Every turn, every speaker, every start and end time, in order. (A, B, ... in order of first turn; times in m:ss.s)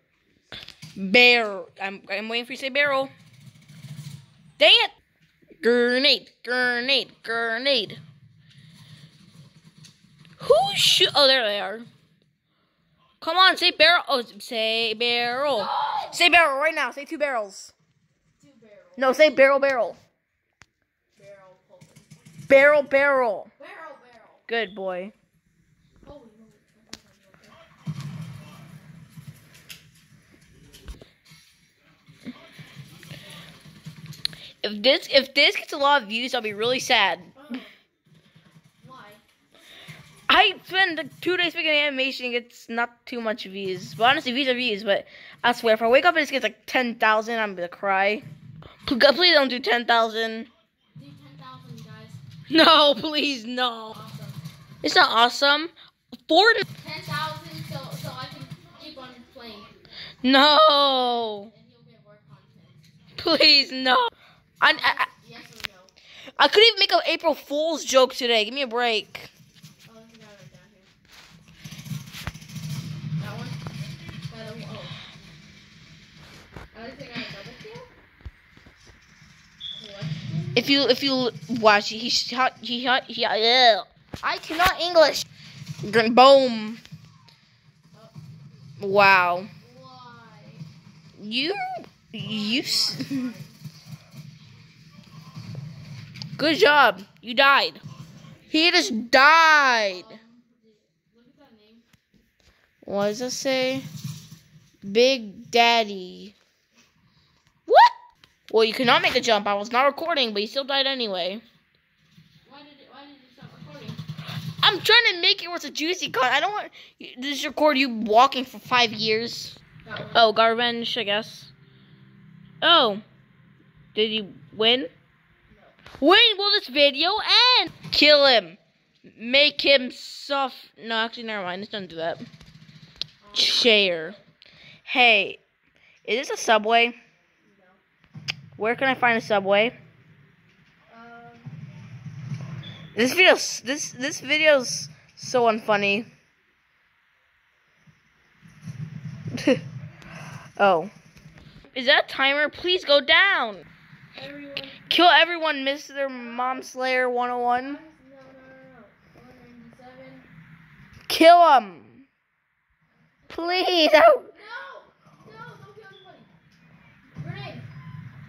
0:01.0-0:03.1 A
0:04.6-0:04.9 A
0:05.6-0:08.0 A
0:10.4-0:11.9 A
0:13.2-0:17.7 A
0:15.5-0:16.2 B
0:18.4-0:19.2 B
0:19.0-0:20.0 A
0:21.2-0:22.1 B
0:22.5-0:23.5 A
0:23.6-0:24.4 B
0:24.5-0:25.1 A
0:26.0-0:27.6 B
0:34.6-0:37.4 A
0:37.3-0:37.7 B
0:38.8-0:39.2 B
0:40.3-0:48.2 A
0:48.8-0:50.5 A
0:50.9-0:52.2 B
0:52.5-0:53.9 A
0:53.9-0:54.4 B
0:54.8-0:55.7 A
0:56.3-0:56.6 A
0:56.8-0:59.7 B
1:00.2-1:01.5 A
1:00.9-1:02.9 B
1:03.2-1:04.1 A
1:04.6-1:05.1 A
1:04.6-1:05.9 B
1:06.4-1:09.3 A
1:09.8-1:10.9 B
1:13.2-1:13.6 B
1:14.3-1:15.0 B
1:16.7-1:17.9 B
1:19.8-1:20.9 B
1:20.5-1:25.3 A
1:25.8-1:26.8 A
1:28.8-1:29.5 A
1:29.5-1:30.6 B
1:31.2-1:33.3 A
1:32.2-1:33.6 B
1:36.4-1:37.8 A
1:38.5-1:40.1 A
1:39.8-1:41.8 B
1:42.8-1:43.8 A
1:44.8-1:46.3 A
1:48.5-1:51.4 A
1:52.4-1:54.0 B
1:54.6-1:59.6 A
1:59.8-2:00.3 B
2:00.1-2:01.5 A
2:02.6-2:03.0 A
2:03.9-2:04.9 A
2:05.5-2:05.8 B
2:06.0-2:12.2 A
2:13.2-2:14.1 B
2:13.3-2:14.2 A
2:14.8-2:15.4 A
2:16.0-2:17.0 A
2:17.4-2:17.8 B
2:18.6-2:19.7 A
2:20.9-2:21.6 B
2:23.0-2:26.1 A
2:29.3-2:29.6 A
2:30.6-2:30.9 A
2:31.7-2:33.6 A
2:34.1-2:34.9 B
2:34.9-2:37.8 A
2:36.2-2:36.7 B
2:37.6-2:40.3 B
2:41.1-2:42.0 A
2:43.2-2:46.3 B
2:43.3-2:44.3 A
2:47.2-2:47.6 B